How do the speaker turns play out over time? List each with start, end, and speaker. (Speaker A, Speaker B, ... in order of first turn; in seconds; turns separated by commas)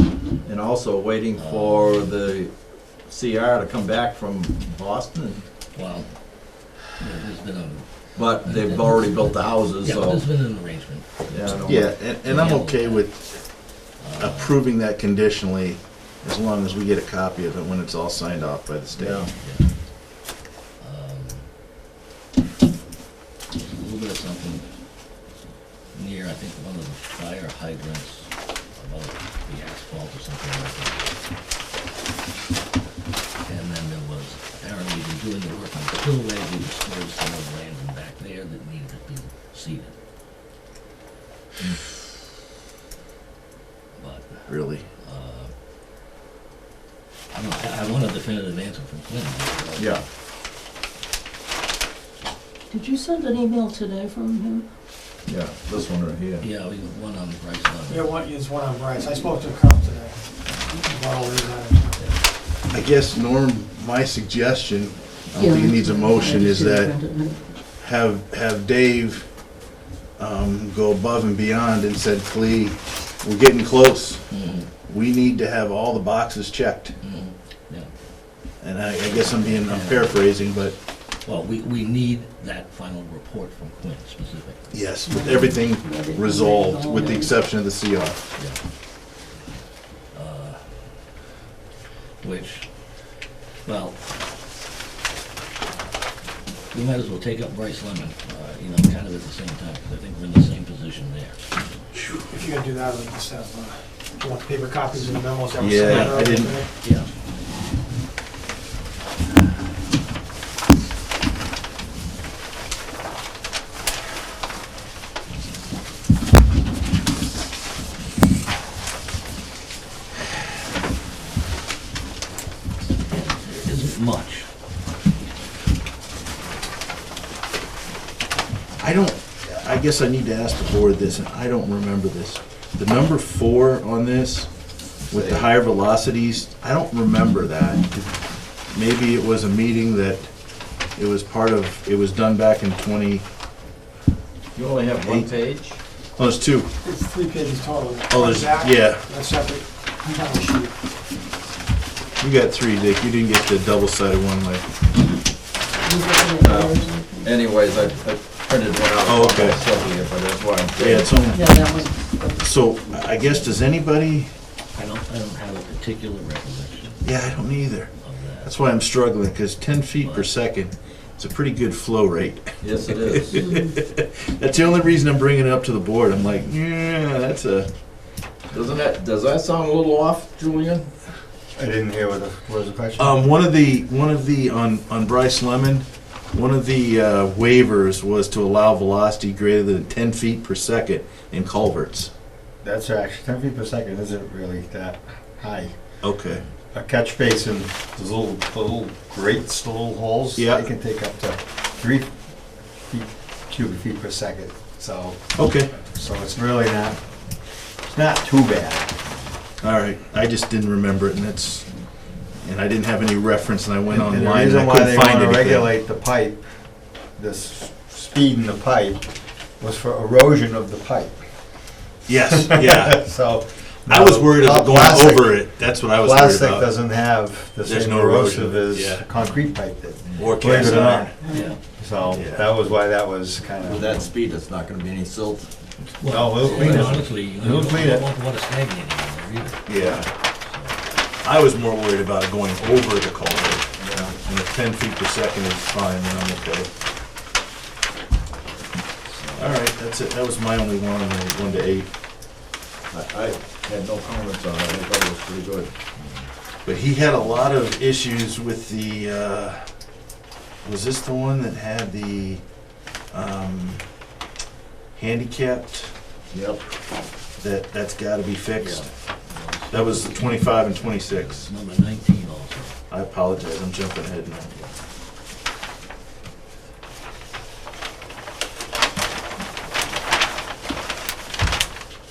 Speaker A: 0.4-2.5, Speaker B: 1.3-2.1, Speaker A: 3.1-5.4, Speaker B: 5.7-6.1, Speaker B: 6.9-13.1, Speaker A: 8.1-10.3, Speaker A: 11.3-11.9, Speaker C: 11.7-13.4, Speaker B: 14.0-14.6, Speaker C: 14.2-19.3, Speaker A: 19.0-19.3, Speaker B: 19.4-19.7, Speaker B: 20.8-21.5, Speaker B: 23.5-24.7, Speaker B: 25.9-31.2, Speaker B: 33.5-39.9, Speaker B: 44.0-45.5, Speaker C: 44.5-44.9, Speaker B: 47.3-50.0, Speaker A: 49.8-50.0, Speaker D: 52.7-54.6, Speaker A: 55.3-56.4, Speaker B: 56.4-58.1, Speaker E: 57.9-62.1, Speaker C: 62.7-67.0, Speaker D: 65.3-67.4, Speaker C: 67.8-69.3, Speaker C: 70.2-74.3, Speaker B: 74.3-74.7, Speaker C: 74.9-77.0, Speaker B: 77.0-77.9, Speaker C: 78.6-80.8, Speaker B: 79.0-80.7, Speaker B: 81.2-84.8, Speaker C: 84.7-88.2, Speaker D: 85.1-87.4, Speaker B: 90.1-90.7, Speaker B: 92.2-92.7, Speaker B: 93.7-94.0, Speaker B: 96.7-101.4, Speaker E: 102.0-106.7, Speaker C: 105.6-106.6, Speaker B: 105.8-107.1, Speaker B: 123.1-124.5, Speaker C: 128.8-134.5, Speaker A: 135.1-135.5, Speaker C: 135.1-138.2, Speaker C: 138.7-140.3, Speaker C: 140.9-143.2, Speaker A: 144.5-145.8, Speaker C: 145.0-145.3, Speaker C: 146.2-146.7, Speaker E: 146.8-150.7, Speaker C: 148.1-149.1, Speaker C: 152.2-154.7, Speaker D: 155.8-157.5, Speaker A: 156.4-161.2, Speaker C: 159.1-159.6, Speaker B: 159.4-160.0, Speaker C: 160.8-161.6, Speaker D: 161.2-162.5, Speaker C: 162.3-164.3, Speaker B: 164.8-167.2, Speaker C: 167.0-167.9, Speaker B: 168.0-168.5, Speaker C: 168.4-177.7, Speaker B: 170.0-170.3, Speaker A: 172.6-173.4, Speaker D: 173.4-173.7, Speaker A: 178.5-180.9, Speaker F: 181.6-183.2, Speaker C: 183.0-192.1, Speaker F: 192.6-195.8, Speaker C: 196.0-196.4, Speaker F: 196.7-202.2, Speaker C: 200.4-200.7, Speaker F: 202.8-205.3, Speaker C: 205.4-205.7, Speaker F: 205.9-207.0, Speaker F: 207.8-209.0, Speaker C: 209.6-211.7, Speaker C: 212.4-215.7, Speaker F: 213.9-216.5, Speaker F: 217.1-221.2, Speaker C: 222.1-223.0, Speaker F: 222.1-234.1, Speaker C: 223.9-226.7, Speaker C: 227.6-229.1, Speaker A: 230.2-231.0, Speaker C: 230.4-231.1, Speaker B: 231.3-231.6, Speaker C: 232.1-232.5, Speaker A: 233.7-235.5, Speaker B: 236.0-240.8, Speaker F: 236.0-238.1, Speaker C: 236.4-237.0, Speaker C: 239.7-240.1, Speaker C: 241.2-246.7, Speaker A: 243.8-244.2, Speaker B: 249.1-249.6, Speaker C: 249.4-251.9, Speaker A: 252.9-255.7, Speaker B: 256.0-256.3, Speaker C: 256.6-259.7, Speaker C: 260.6-262.4, Speaker C: 263.1-263.8, Speaker C: 264.9-265.9, Speaker A: 266.3-266.6, Speaker C: 267.4-268.9, Speaker B: 268.6-272.8, Speaker C: 269.7-271.5, Speaker C: 272.9-274.5